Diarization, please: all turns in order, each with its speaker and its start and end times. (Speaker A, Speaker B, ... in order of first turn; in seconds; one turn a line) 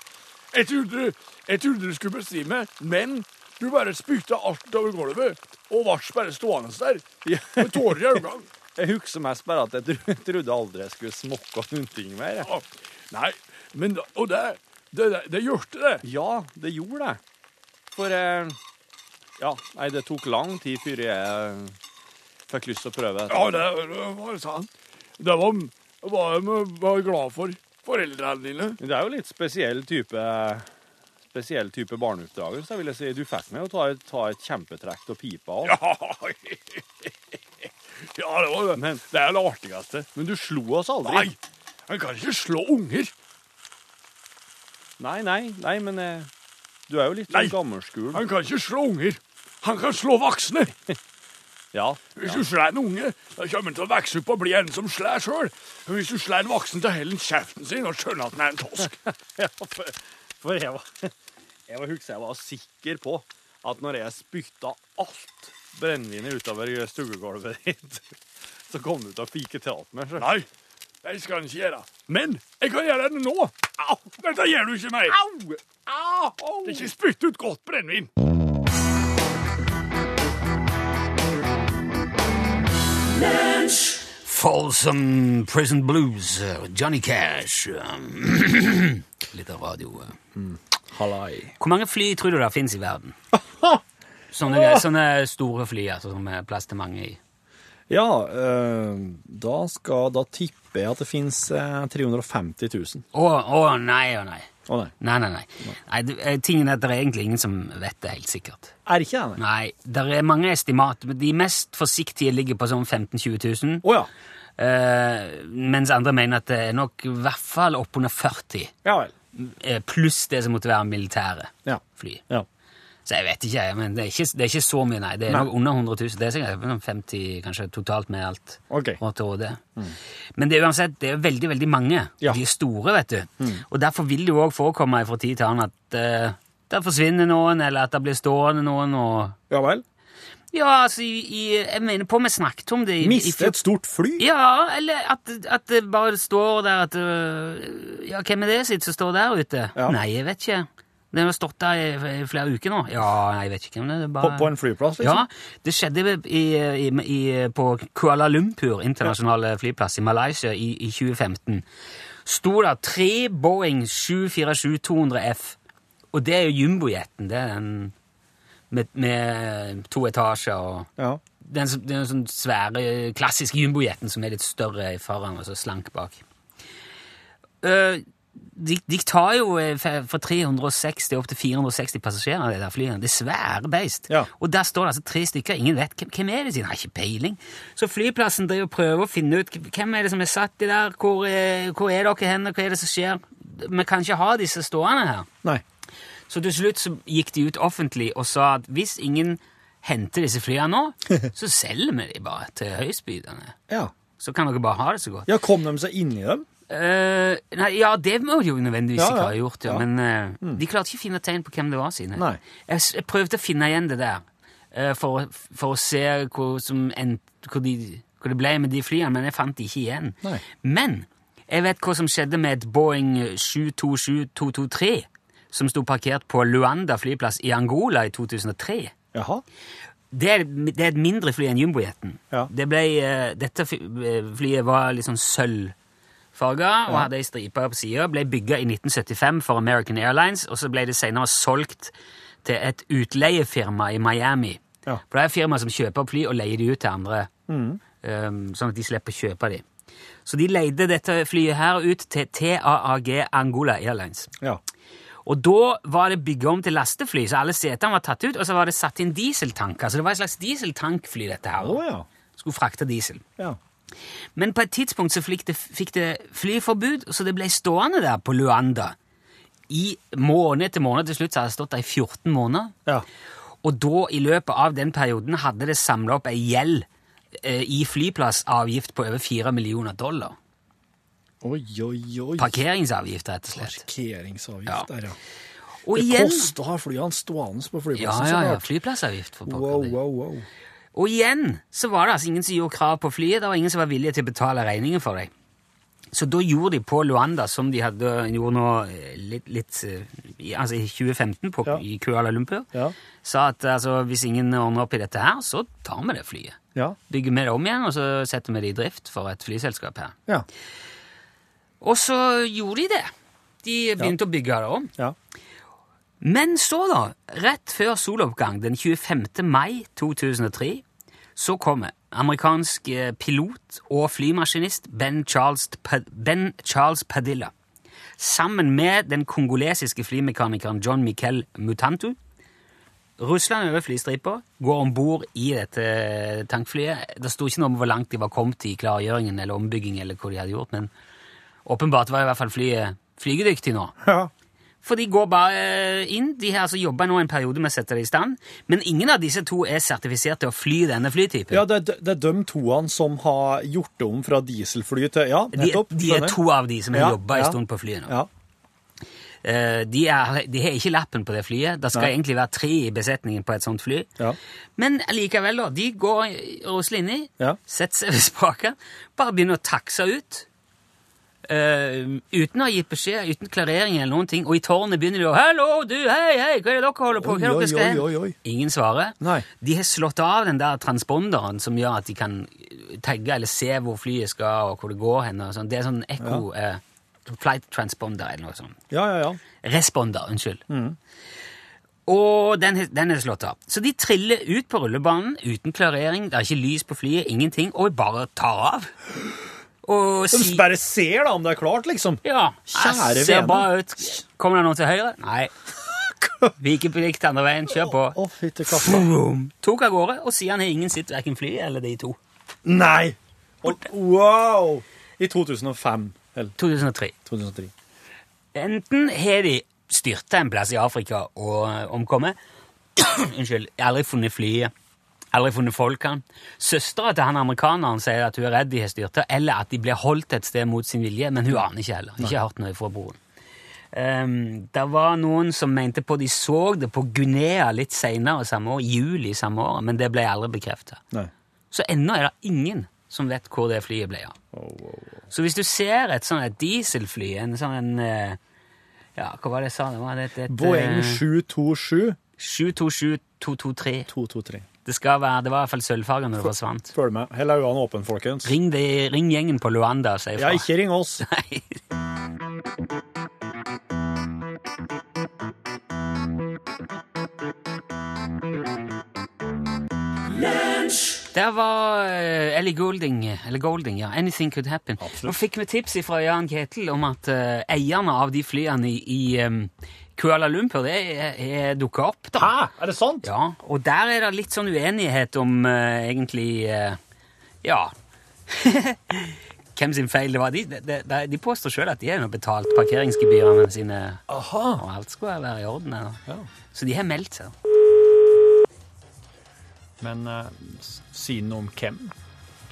Speaker A: 0.5-8.5
Speaker B: 7.2-8.2
Speaker B: 8.7-12.5
Speaker A: 12.4-16.0
Speaker B: 16.0-17.2
Speaker B: 17.9-18.6
Speaker B: 19.4-21.8
Speaker B: 22.5-23.6
Speaker A: 23.3-28.8
Speaker B: 28.8-30.7
Speaker B: 31.3-35.8
Speaker A: 35.6-36.8
Speaker A: 38.1-39.8
Speaker B: 38.7-41.3
Speaker A: 41.0-41.4
Speaker A: 41.9-43.1
Speaker B: 45.0-46.3
Speaker B: 46.9-48.2
Speaker A: 47.3-47.5
Speaker A: 48.1-50.7
Speaker B: 51.7-52.4
Speaker A: 52.1-58.9
Speaker B: 58.8-61.1
Speaker B: 61.7-68.1
Speaker B: 68.7-70.3
Speaker A: 70.2-70.5
Speaker A: 71.0-75.2
Speaker B: 75.0-76.9
Speaker A: 76.6-78.1
Speaker C: 84.2-90.2
Speaker B: 90.3-91.5
Speaker C: 91.6-93.2
Speaker B: 93.3-93.8
Speaker C: 94.3-97.2
Speaker B: 94.5-94.8
Speaker B: 97.9-103.0
Speaker C: 103.1-108.7
Speaker B: 104.7-104.9
Speaker B: 108.8-109.4
Speaker C: 109.4-113.9
Speaker B: 113.8-114.1
Speaker C: 114.6-118.7
Speaker B: 118.8-119.1
Speaker C: 119.3-122.2
Speaker B: 121.6-122.5
Speaker C: 123.0-129.6
Speaker B: 128.7-129.0
Speaker C: 130.4-139.4
Speaker B: 139.5-139.8
Speaker C: 140.5-143.6
Speaker B: 143.0-144.2
Speaker C: 144.2-161.6
Speaker B: 154.2-155.2
Speaker C: 162.2-165.6
Speaker C: 166.1-167.9
Speaker C: 168.7-170.9
Speaker C: 171.4-176.2
Speaker C: 177.6-195.3
Speaker C: 196.3-203.6
Speaker C: 204.2-205.3
Speaker B: 205.3-206.4
Speaker C: 206.7-228.9
Speaker B: 209.0-209.8
Speaker B: 229.1-229.4
Speaker C: 230.1-235.7
Speaker C: 236.3-247.3
Speaker B: 247.5-247.8
Speaker C: 248.0-249.6
Speaker C: 250.2-254.3
Speaker C: 255.2-261.8
Speaker B: 261.6-262.1
Speaker C: 262.4-263.2
Speaker C: 264.4-268.9
Speaker C: 269.7-272.7
Speaker C: 273.6-276.9
Speaker C: 277.4-280.4
Speaker B: 281.4-282.6
Speaker C: 282.4-283.8
Speaker B: 283.6-285.1
Speaker C: 285.8-286.5
Speaker B: 285.9-288.7
Speaker C: 287.9-289.9
Speaker B: 289.4-290.4
Speaker C: 290.9-295.3
Speaker C: 296.1-302.7
Speaker C: 303.2-310.1
Speaker C: 311.8-313.1
Speaker C: 313.6-314.9
Speaker C: 316.2-320.8
Speaker C: 321.4-327.5
Speaker C: 328.2-332.2
Speaker C: 333.2-340.9
Speaker C: 341.6-343.9
Speaker B: 344.0-344.3
Speaker C: 344.8-351.7
Speaker B: 351.5-356.4
Speaker C: 355.5-358.2
Speaker B: 356.9-358.3
Speaker C: 359.4-364.1
Speaker C: 364.8-370.4
Speaker C: 371.4-388.8
Speaker B: 377.1-378.4
Speaker B: 379.2-379.4
Speaker B: 386.2-386.4
Speaker B: 388.9-389.4
Speaker C: 389.6-390.6
Speaker B: 390.7-391.0
Speaker C: 392.1-398.9
Speaker C: 399.8-400.6
Speaker B: 400.3-403.7
Speaker C: 402.2-405.5
Speaker B: 406.2-406.5
Speaker C: 406.6-408.2
Speaker B: 407.7-409.1
Speaker C: 408.7-412.2
Speaker B: 412.6-416.5
Speaker C: 416.6-417.1
Speaker B: 417.2-417.7
Speaker C: 418.5-422.4
Speaker C: 423.0-424.7
Speaker C: 425.3-433.2
Speaker C: 433.9-441.0
Speaker C: 441.7-444.4
Speaker B: 444.5-445.2
Speaker C: 445.3-448.4
Speaker C: 449.1-451.2
Speaker B: 450.5-452.2
Speaker C: 452.4-454.1
Speaker B: 454.1-454.6
Speaker C: 454.8-456.9
Speaker B: 456.9-458.5
Speaker C: 458.4-460.7
Speaker B: 460.4-461.2
Speaker C: 461.2-461.8
Speaker C: 471.3-482.5
Speaker B: 475.0-475.4
Speaker B: 482.4-483.3
Speaker C: 483.2-487.0
Speaker C: 487.6-487.9
Speaker C: 488.5-494.2
Speaker B: 494.3-494.8
Speaker C: 494.7-496.2
Speaker C: 496.7-497.5
Speaker B: 500.0-502.1